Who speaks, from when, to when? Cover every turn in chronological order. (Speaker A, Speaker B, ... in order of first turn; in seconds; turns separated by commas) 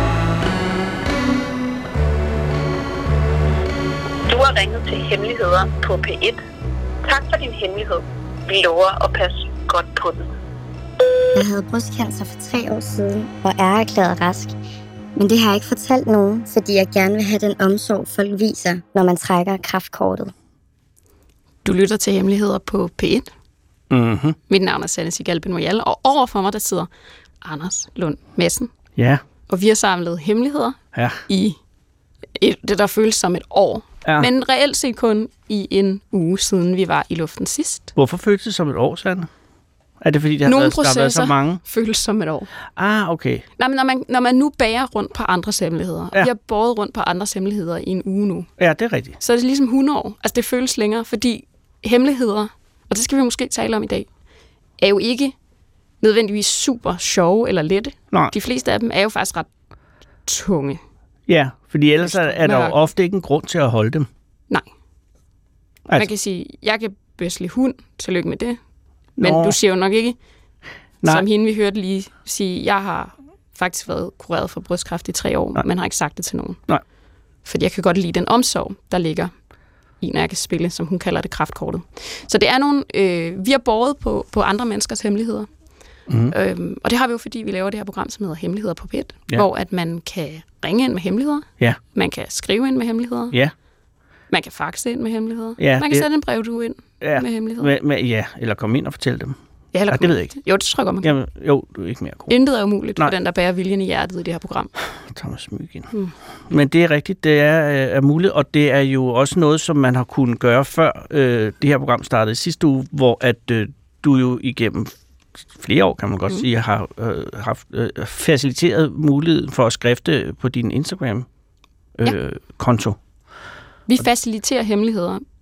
Speaker A: 4.3-6.4, Speaker A: 7.0-10.3, Speaker B: 11.4-14.6, Speaker B: 15.2-20.3, Speaker C: 21.6-23.3, Speaker D: 23.9-24.4, Speaker C: 24.5-26.9, Speaker C: 27.4-28.7, Speaker D: 29.0-29.2, Speaker C: 29.5-30.8, Speaker D: 30.9-31.2, Speaker C: 31.3-31.6, Speaker C: 32.4-37.9, Speaker D: 38.0-39.3, Speaker D: 40.0-41.6, Speaker C: 40.5-42.5, Speaker D: 42.8-43.4, Speaker C: 43.6-48.5, Speaker D: 48.6-49.2, Speaker C: 49.2-54.1, Speaker C: 54.8-55.4, Speaker C: 56.0-59.5, Speaker C: 60.3-60.8, Speaker D: 61.3-64.1, Speaker C: 62.0-62.8, Speaker C: 66.0-68.6, Speaker D: 69.2-69.6, Speaker C: 69.2-70.2, Speaker C: 71.0-76.6, Speaker C: 77.5-79.3, Speaker C: 80.0-85.5, Speaker D: 86.1-86.3, Speaker C: 86.3-93.3, Speaker C: 94.3-97.7, Speaker D: 95.6-96.1, Speaker D: 97.0-99.4, Speaker C: 99.7-101.1, Speaker D: 99.9-100.3, Speaker D: 101.0-102.3, Speaker C: 102.3-104.7, Speaker D: 105.1-105.9, Speaker D: 106.5-114.9, Speaker D: 115.6-121.3, Speaker D: 122.0-123.0, Speaker C: 123.9-125.2